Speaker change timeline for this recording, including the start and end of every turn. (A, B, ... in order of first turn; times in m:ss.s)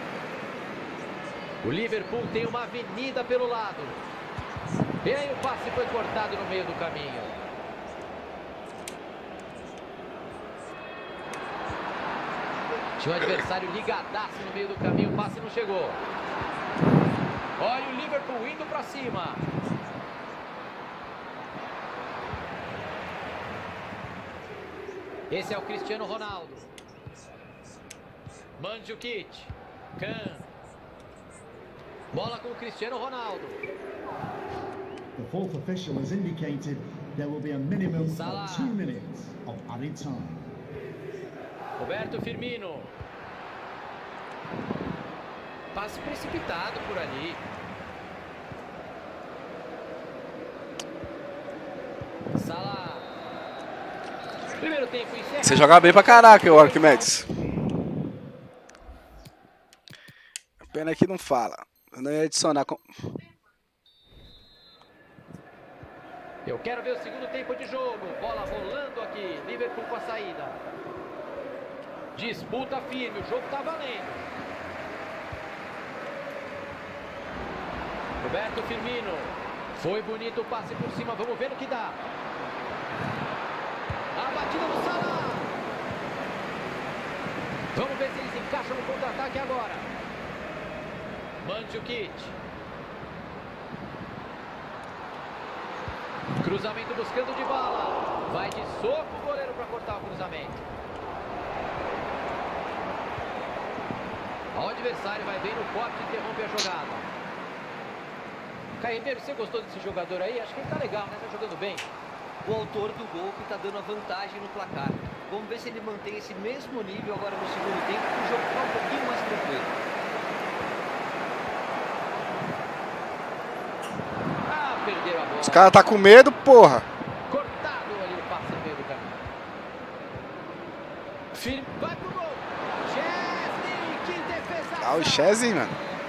0:01.6-0:04.0 A
0:05.0-0:07.3 A
0:13.0-0:16.0 A
0:17.6-0:19.4 A
0:25.3-0:26.7 A
0:28.6-0:30.5 A
0:32.1-0:33.6 A
0:35.2-0:40.5 B
0:38.1-0:38.8 A
0:41.8-0:42.9 A
0:45.7-0:47.4 A
0:52.3-0:53.1 A
0:54.6-0:57.1 A
0:55.4-0:57.3 C
1:00.6-1:02.8 C
1:06.4-1:10.6 A
1:12.1-1:14.3 A
1:18.2-1:22.0 A
1:24.1-1:25.5 A
1:27.7-1:29.9 A
1:31.4-1:32.4 A
1:36.4-1:40.6 A
1:44.5-1:47.1 A
1:48.8-1:51.9 A
1:52.4-1:59.7 D
2:04.4-2:05.7 A
2:05.4-2:06.8 C
2:07.3-2:09.2 A
2:11.3-2:15.3 A
2:14.8-2:15.8 C